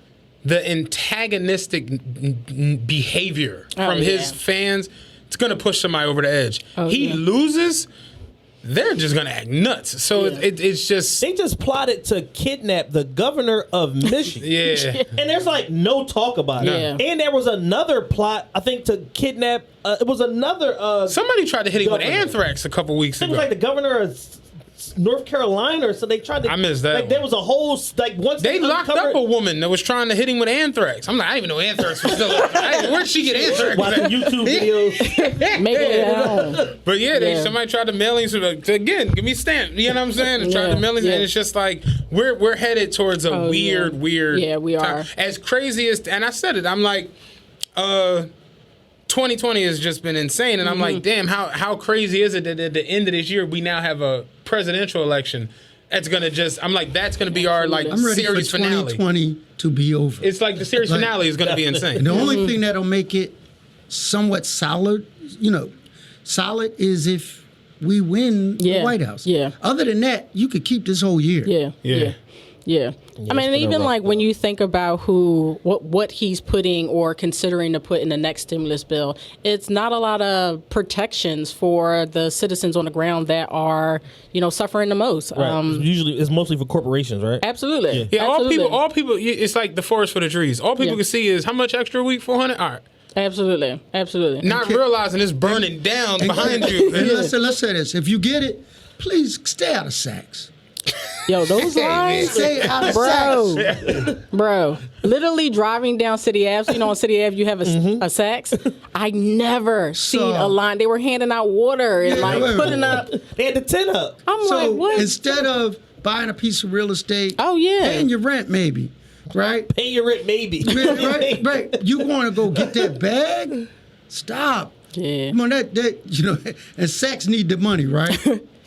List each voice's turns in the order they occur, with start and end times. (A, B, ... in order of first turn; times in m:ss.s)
0:00.4-0:07.9 A
0:03.7-0:04.4 B
0:06.8-0:07.2 B
0:08.6-0:11.2 A
0:10.2-0:10.4 B
0:11.2-0:14.5 C
0:14.4-0:15.0 A
0:14.7-0:15.0 B
0:15.1-0:21.2 C
0:16.6-0:16.9 A
0:16.6-0:17.0 B
0:21.1-0:23.5 A
0:21.7-0:22.4 C
0:23.2-0:29.2 C
0:26.4-0:27.2 A
0:28.4-0:47.1 A
0:32.0-0:35.1 C
0:35.1-0:37.5 B
0:35.7-0:36.7 C
0:40.4-0:41.3 B
0:43.3-0:45.1 B
0:47.8-0:48.3 A
0:49.1-0:59.0 A
0:50.6-0:51.0 B
0:57.3-0:58.1 B
0:57.9-1:01.2 D
1:00.2-1:02.3 A
1:01.4-1:02.3 C
1:02.0-1:03.4 D
1:02.1-1:02.5 B
1:03.9-1:05.7 D
1:06.2-1:11.5 D
1:08.6-1:09.5 B
1:11.4-1:12.2 B
1:11.8-1:12.1 A
1:12.7-1:25.9 B
1:13.2-1:14.2 C
1:25.3-1:28.1 C
1:27.4-1:28.8 B
1:28.1-1:32.8 A
1:33.2-1:34.5 B
1:34.4-1:37.3 A
1:34.5-1:34.8 D
1:35.4-1:40.5 D
1:36.4-1:37.3 B
1:41.3-1:43.7 B
1:41.5-1:42.9 A
1:42.2-1:43.7 D
1:43.6-1:44.1 A
1:44.2-1:53.1 B
1:47.6-1:48.0 C
1:50.0-1:50.6 D
1:52.0-1:53.0 D
1:52.1-1:54.2 C
1:54.3-1:55.4 B
1:54.4-1:59.7 D
1:57.4-1:58.1 B
1:59.7-2:01.9 C
2:00.6-2:04.8 D
2:02.6-2:02.9 C
2:04.9-2:05.3 B
2:05.3-2:08.3 D
2:08.1-2:08.4 B